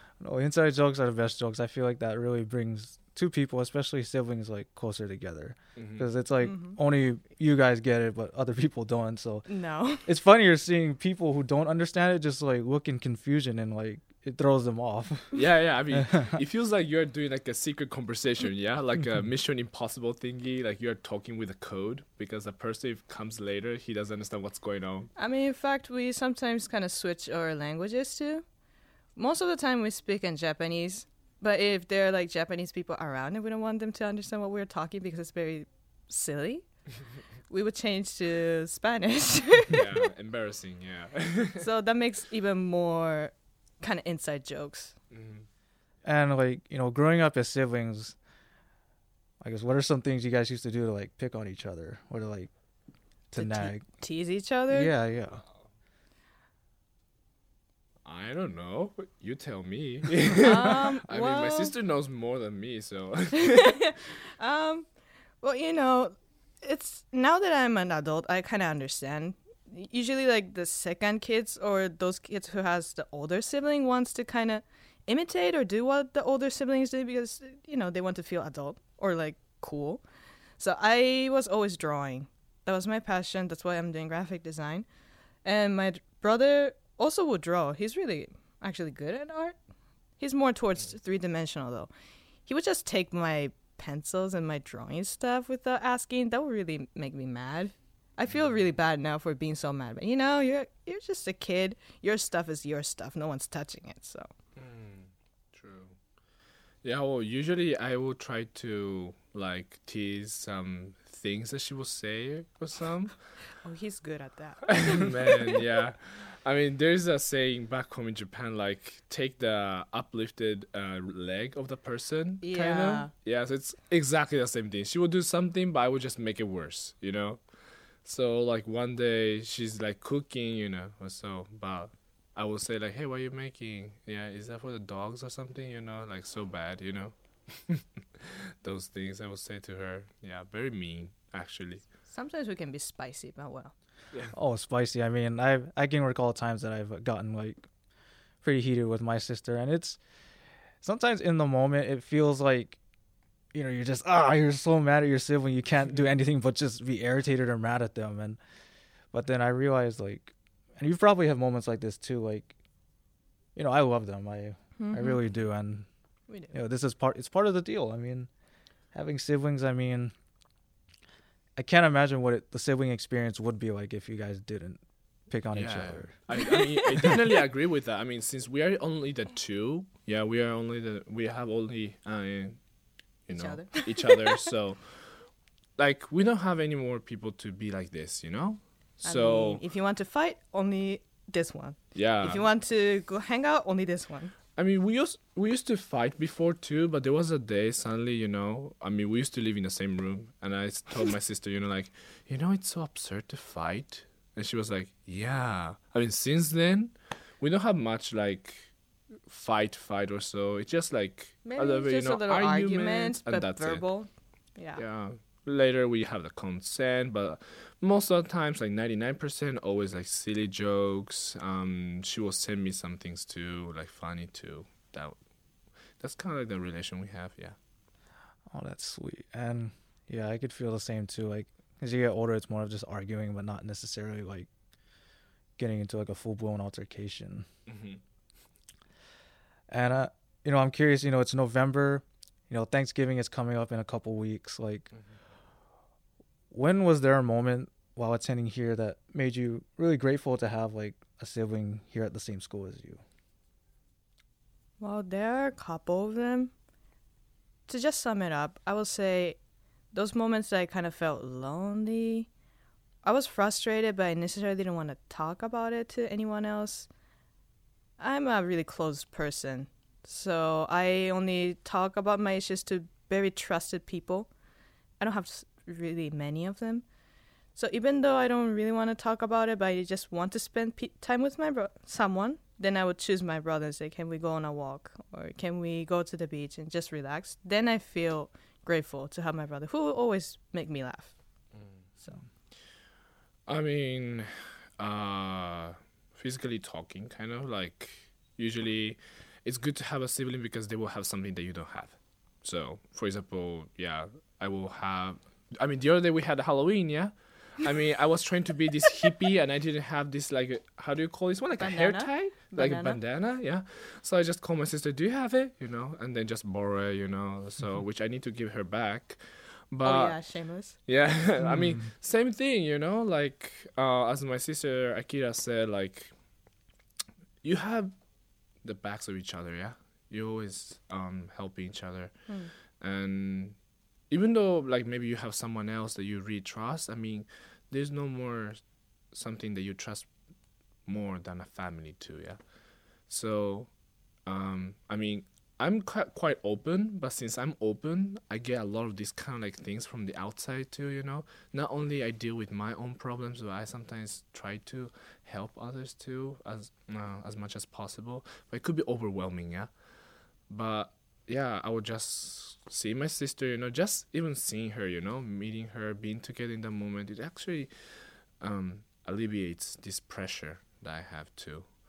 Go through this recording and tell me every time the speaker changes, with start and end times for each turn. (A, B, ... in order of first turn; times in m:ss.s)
0:00.2-0:09.5 A
0:05.8-0:06.1 B
0:06.4-0:06.8 C
0:09.5-0:10.1 C
0:10.0-0:16.4 A
0:15.3-0:25.1 B
0:25.2-0:28.4 C
0:29.2-0:36.7 C
0:37.5-0:39.8 C
0:39.7-0:41.7 B
0:41.6-0:45.0 C
0:45.1-0:45.5 B
0:46.0-0:48.2 A
0:49.4-0:52.5 A
0:53.3-0:53.8 A
0:53.3-0:54.9 C
0:54.7-0:55.4 A
0:58.0-1:03.8 B
1:00.4-1:01.7 C
1:03.4-1:04.9 C
1:05.4-1:20.0 C
1:20.6-1:24.9 C
1:25.4-1:29.6 C
1:30.2-1:31.9 C
1:32.4-1:44.3 C
1:44.6-1:46.0 B
1:46.8-1:53.4 B
1:53.6-1:55.6 C
1:54.7-2:07.4 B
2:02.4-2:03.1 C
2:08.0-2:21.8 B
2:22.1-2:23.7 C
2:24.3-2:27.7 A
2:28.4-2:30.0 A
2:30.8-2:32.8 A
2:33.5-2:38.4 A
2:39.1-2:42.5 A
2:43.5-2:45.9 A
2:44.8-2:45.2 C
2:46.3-2:46.5 C
2:46.5-2:48.3 A
2:48.9-2:50.1 A
2:51.6-2:56.1 A
2:55.5-3:02.6 B
2:56.3-2:57.1 C
3:03.2-3:05.2 B
3:03.3-3:04.5 C
3:05.8-3:09.6 B
3:09.0-3:14.3 C
3:11.9-3:12.4 B
3:14.6-3:28.7 B
3:29.2-3:33.8 B
3:31.4-3:34.8 C
3:34.8-3:45.2 B
3:46.0-3:47.6 B
3:48.5-3:54.5 A
3:55.6-3:57.5 A
3:57.7-3:58.0 B
3:59.7-4:04.9 A
4:06.5-4:13.0 A
4:14.8-4:16.5 C
4:17.7-4:19.4 C
4:19.9-4:22.3 C
4:23.0-4:26.9 C
4:28.0-4:34.3 C
4:35.0-4:36.8 C
4:37.5-4:51.1 C
4:51.5-4:51.9 B
4:53.5-5:20.2 B
5:11.6-5:13.0 C
5:19.8-5:20.8 C
5:20.8-5:26.1 B
5:27.4-5:27.9 B
5:28.6-5:33.6 B
5:34.1-5:40.1 B
5:40.8-5:42.4 B
5:43.1-5:43.7 B
5:44.2-5:59.7 B
6:00.5-6:11.7 B